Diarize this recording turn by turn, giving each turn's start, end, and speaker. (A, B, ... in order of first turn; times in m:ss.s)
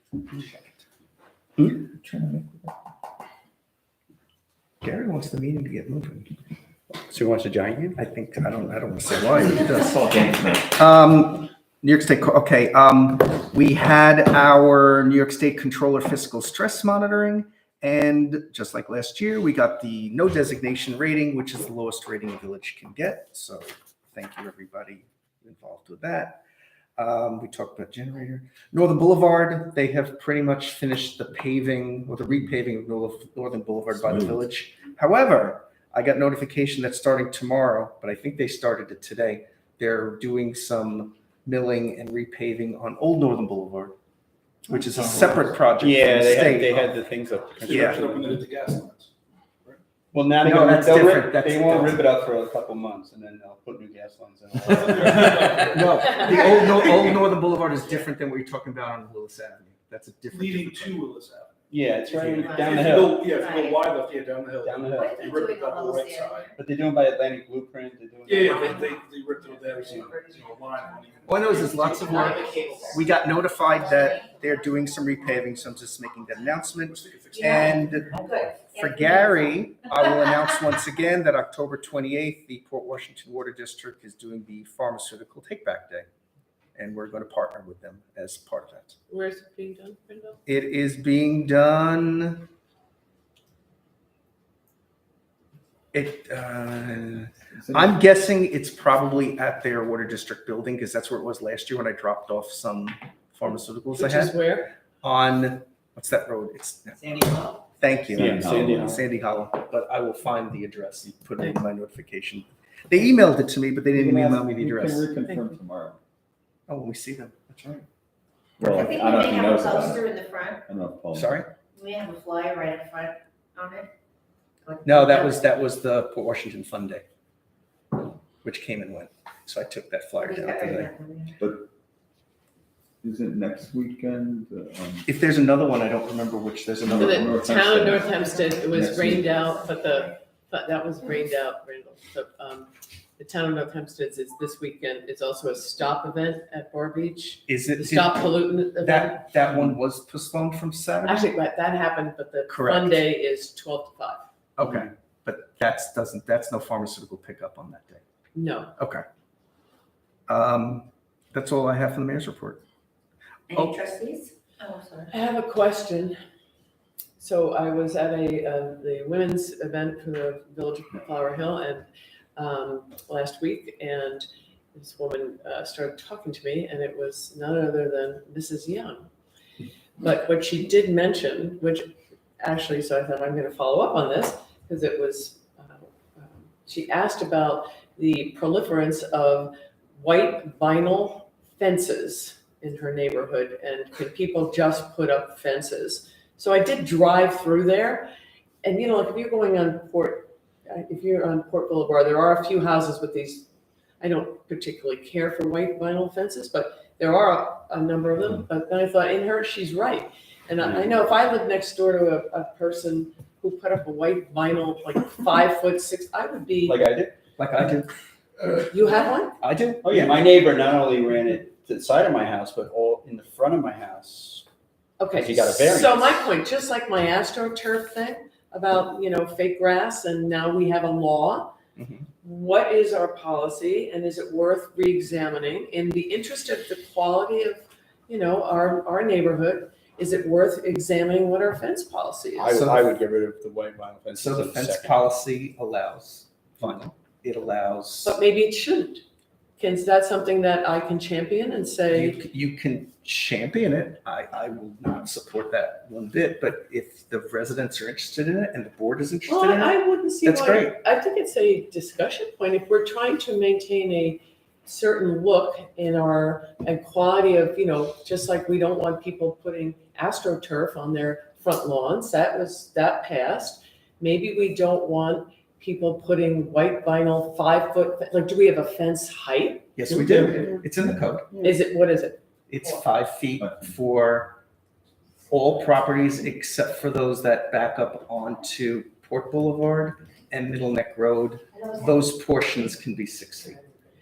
0:00.3-0:00.6 A
0:02.0-0:02.5 B
0:04.8-0:06.3 C
0:06.9-0:08.0 A
0:08.0-0:26.4 C
0:09.8-0:10.7 B
0:27.0-0:44.0 C
0:44.7-0:46.8 C
0:45.8-0:48.4 A
0:47.6-0:49.1 D
0:47.6-0:48.0 C
0:50.1-0:55.8 A
0:50.4-0:52.1 C
0:54.8-1:01.0 C
0:54.9-0:55.8 D
1:00.3-1:01.5 D
1:01.7-1:03.2 A
1:02.2-1:06.5 D
1:02.4-1:03.9 E
1:04.6-1:05.3 A
1:04.9-1:06.5 E
1:06.5-1:08.8 A
1:08.3-1:12.8 D
1:08.6-1:08.9 E
1:09.8-1:10.1 A
1:11.3-1:18.1 C
1:12.0-1:13.0 E
1:13.7-1:15.4 E
1:16.9-1:17.4 D
1:17.4-1:20.5 E
1:18.7-1:26.1 C
1:26.8-1:29.0 C
1:29.1-1:30.4 F
1:30.4-1:32.5 C
1:35.9-1:44.4 C
1:37.5-1:38.0 B
1:43.9-1:44.7 F
1:45.0-1:47.2 C
1:47.1-1:47.5 E
1:47.8-1:55.1 C
1:48.1-1:49.0 B
1:48.1-1:49.0 A
1:54.0-1:56.0 B
1:56.7-1:57.8 C
1:58.6-2:00.2 B
1:58.7-2:00.6 E
2:00.7-2:01.4 B
2:01.1-2:01.5 C
2:01.7-2:03.9 E
2:04.6-2:05.3 E
2:04.8-2:07.0 C
2:08.0-2:10.9 C
2:10.2-2:11.4 E
2:11.4-2:11.7 B
2:13.0-2:15.1 B
2:15.0-2:17.4 C
2:16.8-2:18.2 B
2:17.0-2:29.4 F
2:18.1-2:18.6 E
2:18.7-2:19.3 B
2:19.3-2:20.1 E
2:27.5-2:31.3 C
2:31.0-2:34.2 F
2:32.5-2:33.0 C
2:34.6-2:38.0 C
2:38.3-2:38.7 F
2:38.8-2:39.0 C
2:40.3-2:42.6 C
2:43.5-2:45.1 E
2:43.5-2:43.8 C
2:45.1-2:46.2 F
2:47.2-2:59.1 F
3:00.0-3:18.1 F
3:18.6-3:23.5 F
3:24.0-3:36.8 F
3:36.6-3:37.1 A
3:37.4-3:37.9 C
3:38.7-3:39.4 F
3:39.4-3:40.3 C
3:39.8-3:44.4 A
3:45.0-3:51.5 F
3:45.1-3:46.2 A
3:51.8-3:52.0 C
3:52.2-4:02.6 F
4:02.4-4:05.0 A
4:02.5-4:03.0 C
4:04.1-4:08.2 C
4:08.0-4:09.0 F
4:09.6-4:12.2 F
4:11.9-4:20.8 C
4:19.2-4:39.7 F
4:39.8-4:41.3 C
4:39.8-4:40.7 A
4:41.4-4:42.2 F
4:42.5-4:44.4 C
4:43.4-4:43.7 B
4:45.3-4:53.6 C
4:51.5-4:51.9 E